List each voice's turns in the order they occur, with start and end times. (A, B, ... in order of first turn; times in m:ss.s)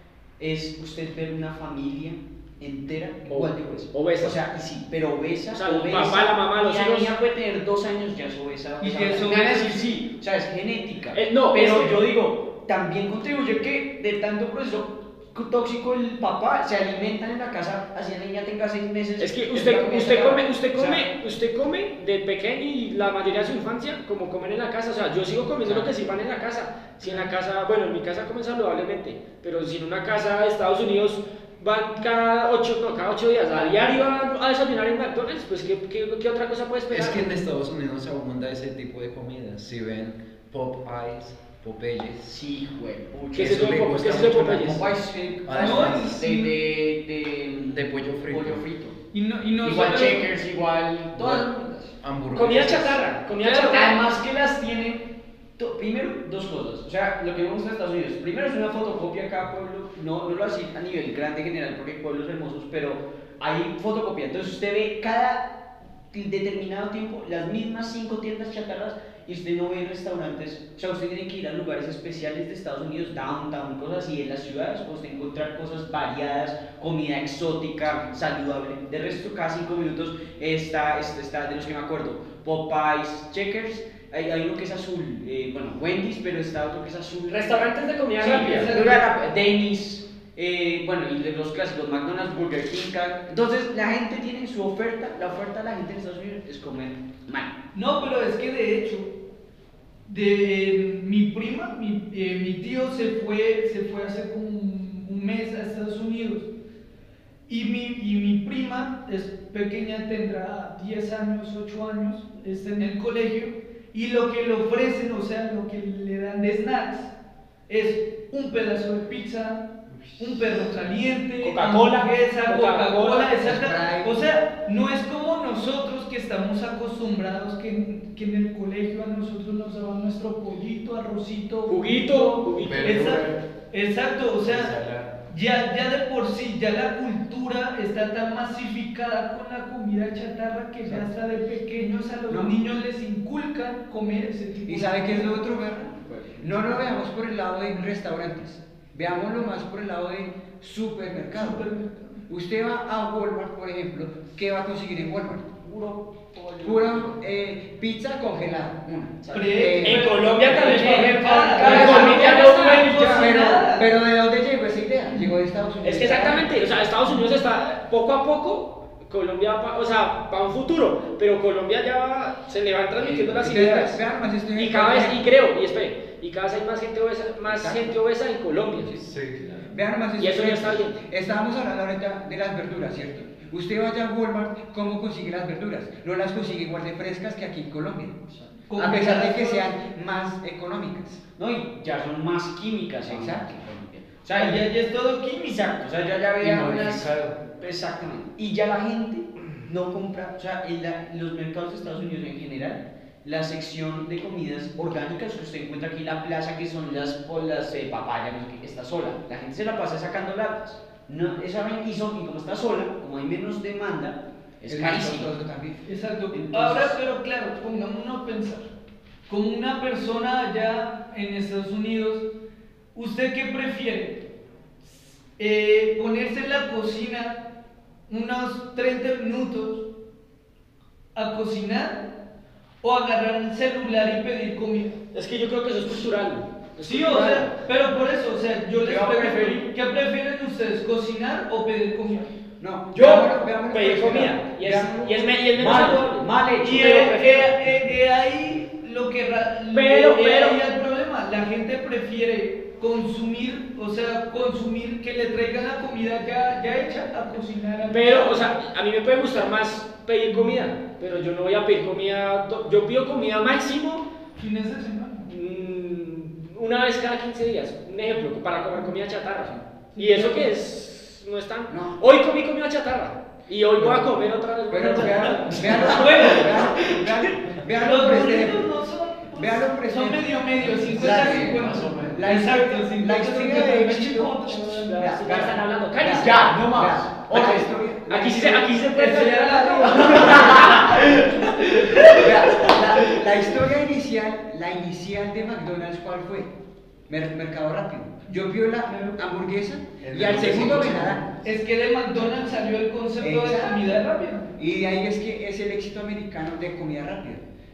0:00.4-0:21.0 A
0:03.3-0:04.4 B
0:05.5-0:07.2 B
0:08.8-0:09.8 C
0:11.1-0:12.0 B
0:19.2-0:37.3 B
0:25.6-0:25.9 A
0:36.9-0:42.3 D
0:42.2-0:43.9 A
0:43.3-0:44.8 B
0:43.3-0:46.3 D
0:44.7-0:49.0 A
0:45.5-0:46.5 C
0:47.7-0:48.6 D
0:49.1-0:50.3 C
0:49.6-0:51.9 A
0:51.1-0:51.5 D
0:52.0-0:53.0 D
0:52.3-0:54.0 B
0:53.4-0:53.9 C
0:53.5-1:05.5 A
1:06.1-1:27.6 A
1:27.3-1:28.8 B
1:28.2-1:29.0 C
1:28.2-1:37.5 A
1:37.7-1:39.1 C
1:40.0-1:46.5 C
1:47.5-1:57.1 C
1:57.7-1:59.6 C
2:00.2-2:14.7 C
2:01.4-2:03.3 B
2:03.4-2:04.2 E
2:11.7-2:13.1 B
2:12.6-2:13.4 D
2:14.4-2:15.1 D
2:15.3-2:25.4 C
2:21.8-2:22.6 E
2:24.7-2:31.6 E
2:25.7-2:26.9 A
2:31.3-2:32.2 C
2:32.3-2:35.6 E
2:35.6-2:37.1 A
2:36.6-2:40.1 E
2:39.2-2:43.2 A
2:39.3-2:43.9 C
2:39.8-2:43.2 B
2:41.6-2:42.2 E
2:43.1-2:46.5 E
2:45.8-2:54.0 B
2:53.0-2:55.2 E
2:54.5-2:58.9 B
2:57.4-2:57.9 E
2:58.8-2:59.1 E
2:59.0-2:59.4 D
2:59.4-2:59.7 C
2:59.7-3:11.2 E
3:00.2-3:01.0 B
3:08.3-3:08.6 A
3:08.7-3:09.7 C
3:11.4-3:14.8 A
3:13.0-3:13.5 E
3:14.4-3:15.6 C
3:15.3-3:35.3 A
3:16.4-3:17.4 D
3:34.7-3:35.8 E
3:35.8-3:38.7 C
3:36.3-3:37.0 A
3:39.3-3:42.2 C
3:42.9-3:44.2 C
3:44.8-3:47.4 C
3:48.1-3:49.8 C
3:51.1-3:52.0 C
3:52.8-3:55.0 C
3:55.1-3:57.5 B
3:56.8-4:02.3 C
3:58.8-3:59.7 A
4:02.6-4:05.3 E
4:02.9-4:07.6 B
4:05.5-4:07.0 A
4:06.6-4:18.5 C
4:09.7-4:10.6 B
4:17.9-4:24.0 B
4:24.4-4:25.3 C
4:25.2-4:37.2 B
4:30.0-4:30.5 C
4:31.7-4:32.0 E
4:33.8-4:34.1 E
4:34.7-4:38.7 E
4:35.7-4:36.8 C
4:37.8-4:45.4 C
4:39.3-4:48.7 E
4:40.6-4:42.3 D
4:44.8-4:46.7 B
4:46.2-4:47.7 A
4:47.3-4:52.7 B
4:48.9-4:52.3 C
4:49.9-4:51.1 A
4:52.1-4:56.5 E
4:57.1-5:01.3 E
5:00.0-5:01.2 D
5:01.4-5:04.5 C
5:03.2-5:04.0 E
5:04.6-5:07.4 E